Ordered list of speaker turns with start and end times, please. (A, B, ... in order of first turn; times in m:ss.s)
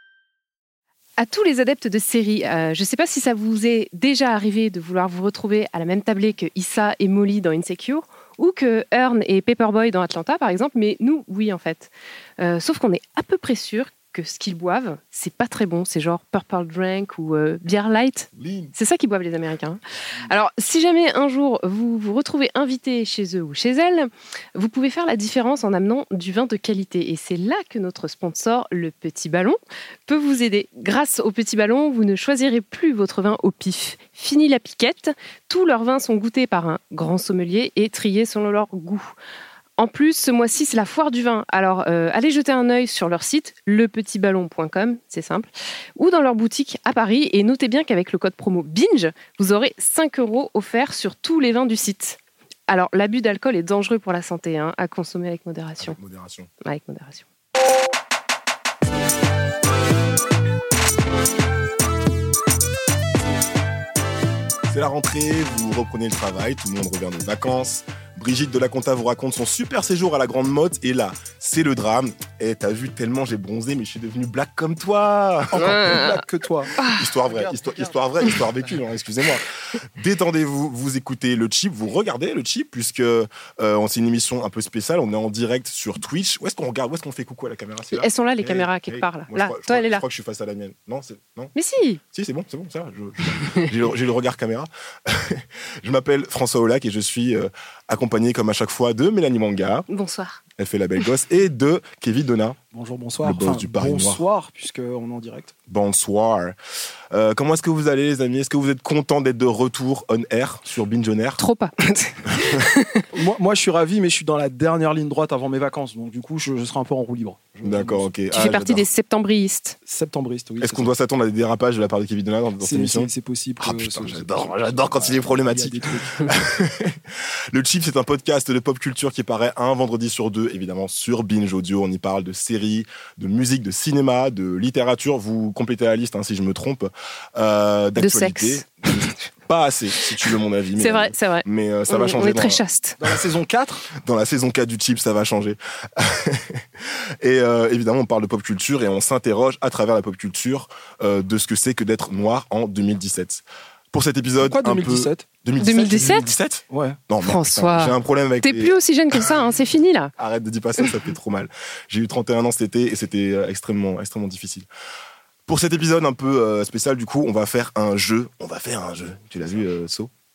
0:01.2-0:39.1 A
0:18.4-0:18.7 B
0:39.8-0:56.0 A
0:55.8-0:56.5 B
0:56.6-0:57.2 A
1:04.7-1:16.0 B
1:15.5-1:16.7 C
1:15.6-1:16.2 A
1:16.8-1:17.1 A
1:16.9-1:31.5 B
1:27.9-1:30.0 A
1:31.5-1:32.0 A
1:32.1-1:39.9 B
1:39.9-1:40.4 A
1:40.6-1:42.6 B
1:42.7-1:45.5 C
1:43.2-1:44.2 B
1:45.7-1:46.6 B
1:47.1-1:51.4 B
1:51.4-1:53.0 A
1:52.3-1:52.6 B
1:53.1-1:58.1 C
1:57.6-1:58.9 B
1:58.3-1:59.8 A
1:59.9-2:00.9 C
2:00.6-2:07.0 B
2:02.6-2:06.4 C
2:07.5-2:22.6 B
2:18.0-2:19.1 A
2:20.8-2:23.0 A
2:23.0-2:23.9 C
2:24.0-2:39.3 B
2:34.4-2:35.2 C
2:35.6-2:36.3 A
2:36.7-2:37.0 C
2:37.2-2:40.1 A
2:40.2-2:44.7 B
2:45.5-2:50.1 B